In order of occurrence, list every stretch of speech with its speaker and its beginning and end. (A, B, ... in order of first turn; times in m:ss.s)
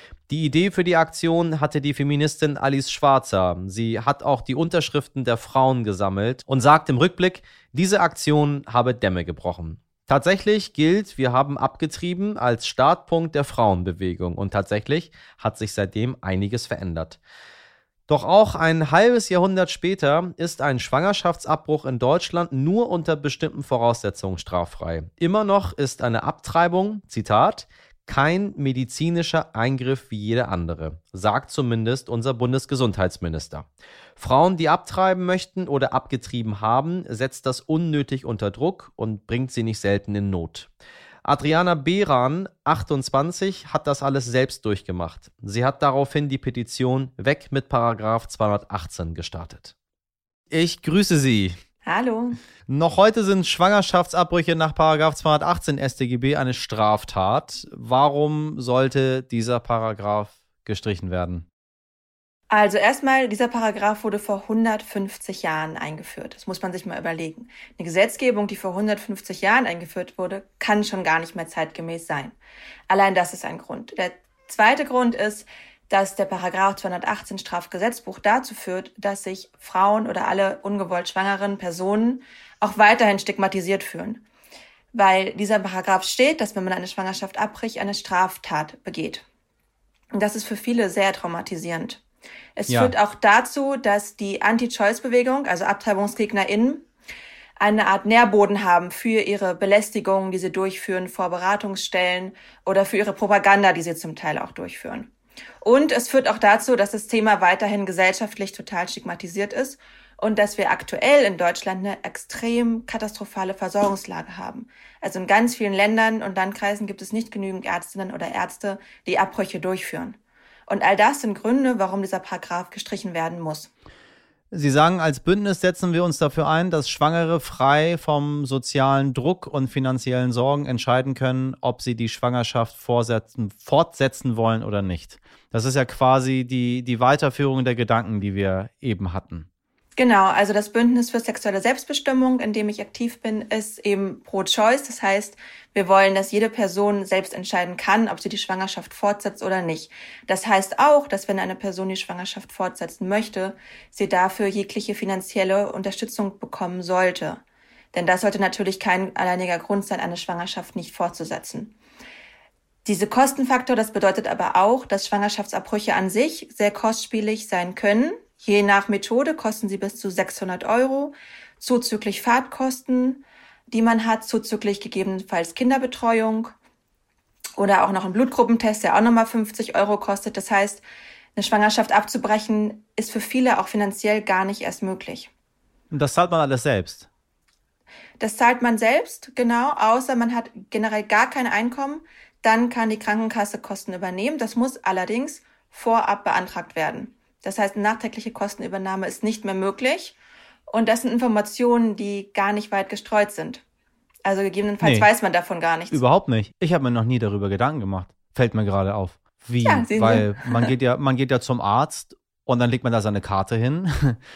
0:00.3-0:17.2 A
0:18.1-0:40.7 A
0:41.2-0:49.7 A
0:50.5-0:51.5 A
0:51.8-0:52.4 B
0:52.7-1:01.4 C
1:02.5-1:12.4 B
1:12.9-1:24.2 B
1:24.9-1:29.2 B
1:30.1-1:32.0 B
1:32.6-1:36.9 B
1:32.7-1:32.9 C
1:37.6-2:03.7 B
2:04.5-2:19.5 C
2:20.0-2:37.4 B
2:37.9-2:41.8 B
2:42.8-2:56.5 B
2:57.6-3:00.8 B
3:01.4-3:05.3 B
3:05.9-3:07.1 C
3:08.2-3:20.2 B
3:20.7-3:23.6 B
3:24.2-3:26.0 B
3:24.8-3:25.1 C
3:25.9-3:34.2 C
3:29.6-3:30.7 B